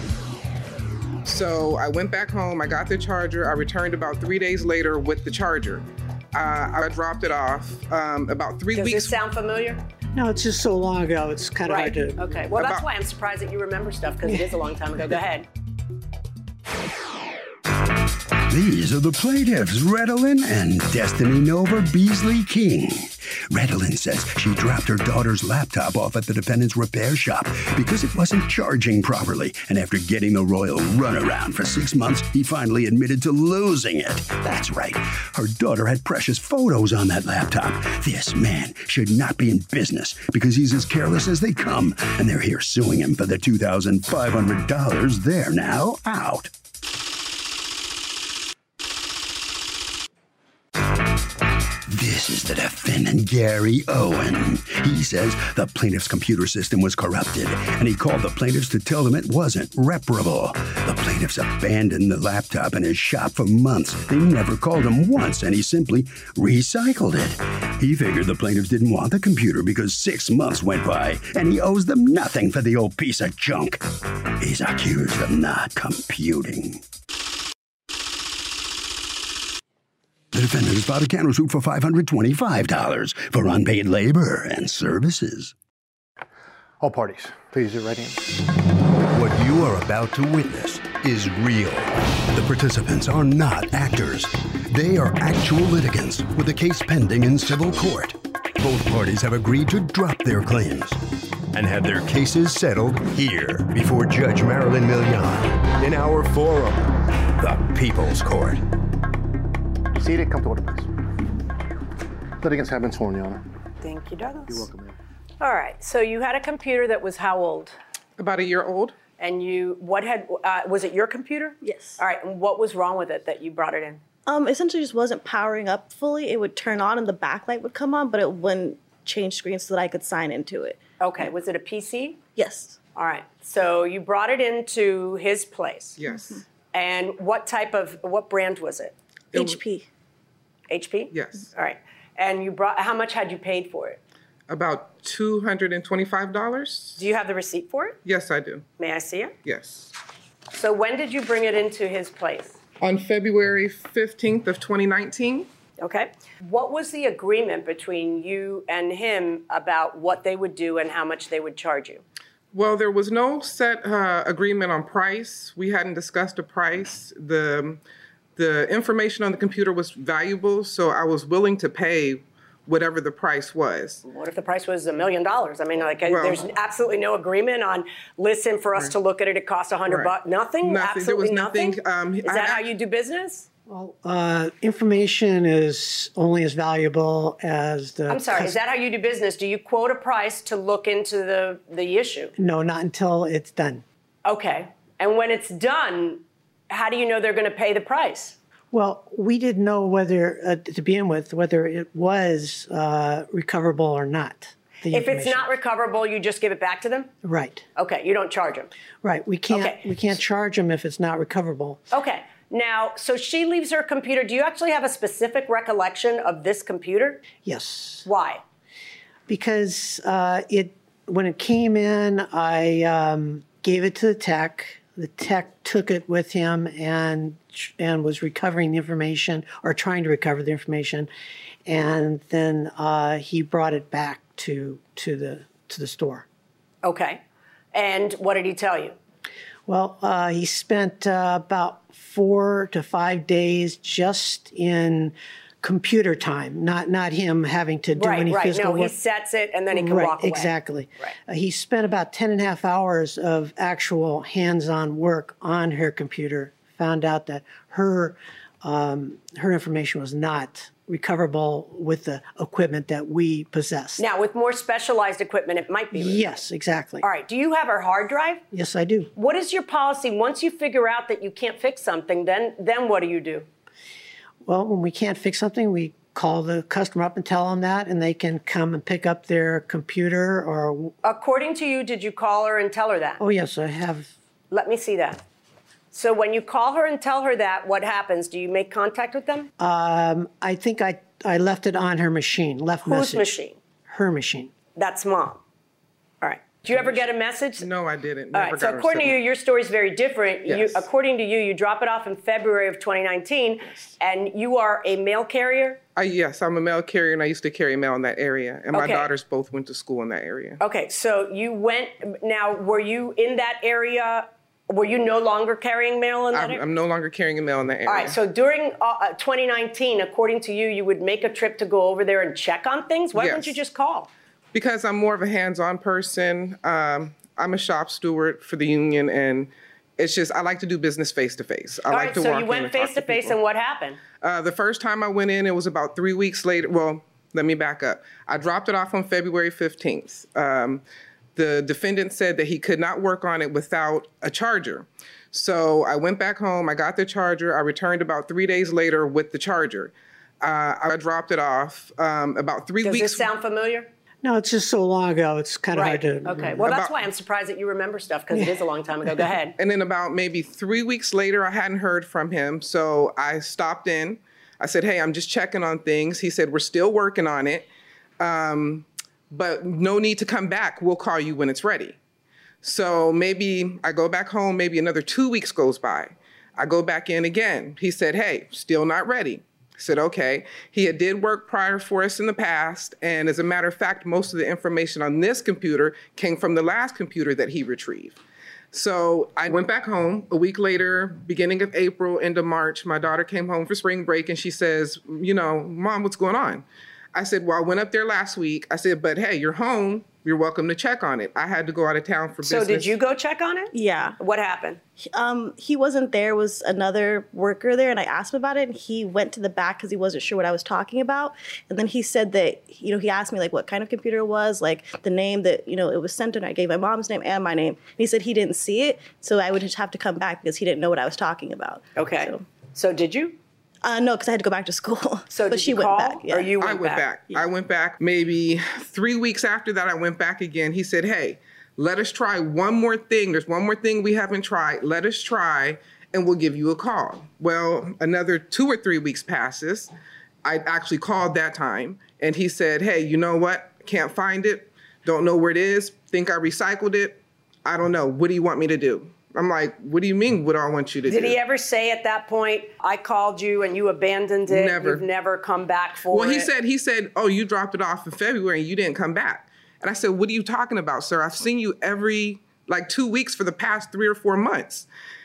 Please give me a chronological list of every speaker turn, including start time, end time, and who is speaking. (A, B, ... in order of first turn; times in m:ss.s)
0:01.2-0:09.2 A
0:08.7-0:09.8 B
0:10.1-0:12.3 C
0:11.7-0:15.5 B
0:12.6-0:12.8 A
0:18.5-0:46.5 D
0:51.9-1:13.8 D
1:14.4-1:16.8 D
1:20.3-1:25.5 D
1:26.8-1:28.3 E
1:29.1-1:41.0 D
1:41.5-1:48.6 D
1:49.9-1:50.9 E
1:52.4-1:53.4 E
1:53.8-1:54.7 B
1:54.5-1:54.9 E
1:55.4-1:57.8 B
1:58.2-1:59.0 A
1:59.2-2:04.0 B
2:01.6-2:02.0 F
2:04.2-2:10.8 F
2:11.0-2:12.2 B
2:12.4-2:12.8 F
2:12.9-2:16.0 B
2:16.0-2:16.4 A
2:16.0-2:16.4 F
2:16.7-2:18.9 B
2:19.3-2:19.6 A
2:19.3-2:19.9 F
2:20.7-2:24.0 B
2:21.1-2:21.5 A
2:24.5-2:27.1 A
2:27.0-2:28.0 B
2:28.0-2:28.7 A
2:28.8-2:29.4 B
2:29.4-2:29.9 A
2:30.5-2:32.6 B
2:32.8-2:35.5 A
2:35.8-2:42.0 B
2:42.5-2:47.8 A
2:48.4-2:54.0 A
2:54.0-3:03.5 B
2:56.0-2:56.4 A
2:59.9-3:02.7 A
3:03.7-3:08.6 C
3:08.1-3:12.3 B
3:12.4-3:13.8 C
3:14.2-3:18.4 B
3:18.7-3:25.5 C
3:24.9-3:27.1 B
3:27.2-3:27.7 C
3:27.8-3:28.7 B
3:29.0-3:31.8 C
3:29.5-3:29.9 B
3:31.9-3:37.3 B
3:37.4-3:38.1 C
3:38.0-3:38.4 B
3:39.3-3:51.1 C
3:51.7-3:56.2 C
3:56.8-3:57.2 B
3:57.7-3:59.0 B
3:59.7-4:08.9 C
4:07.9-4:11.1 B
4:09.7-4:24.0 C
4:24.0-4:26.3 B
4:25.9-4:27.1 C
4:27.0-4:28.4 B
4:28.5-4:29.1 C
4:29.1-4:33.5 B
4:34.4-4:40.9 C
4:41.0-4:43.2 B
4:43.2-4:44.1 C
4:44.5-4:45.2 B
4:45.9-4:49.5 B
4:49.6-4:53.3 C
4:52.9-4:53.6 B
4:53.9-4:54.5 C
4:54.8-4:55.4 B
4:56.2-4:57.7 B
4:57.6-4:59.2 A
4:58.3-5:05.8 B
5:00.5-5:00.9 A
5:05.9-5:10.6 A
5:08.8-5:09.1 B
5:10.6-5:16.6 B
5:16.3-5:18.2 A
5:17.9-5:24.1 B
5:23.1-5:23.6 A
5:24.5-5:33.4 A
5:31.9-5:34.0 B
5:34.1-5:40.8 A
5:41.4-5:53.3 A
5:52.8-5:53.9 B
5:54.2-5:56.7 C
5:55.7-5:59.6 B
5:56.6-5:57.0 A
5:58.3-5:58.6 C
5:59.6-6:12.0 A
6:12.6-6:28.2 A
6:28.7-6:43.0 A
6:42.4-6:44.8 B
6:43.7-6:44.2 F
6:45.0-7:02.4 F
7:02.0-7:03.4 B
7:03.8-7:06.6 F
7:05.3-7:07.0 B
7:06.6-7:19.9 A
7:20.4-7:31.4 A
7:31.1-7:36.5 B
7:34.5-7:35.0 A
7:36.1-7:44.9 A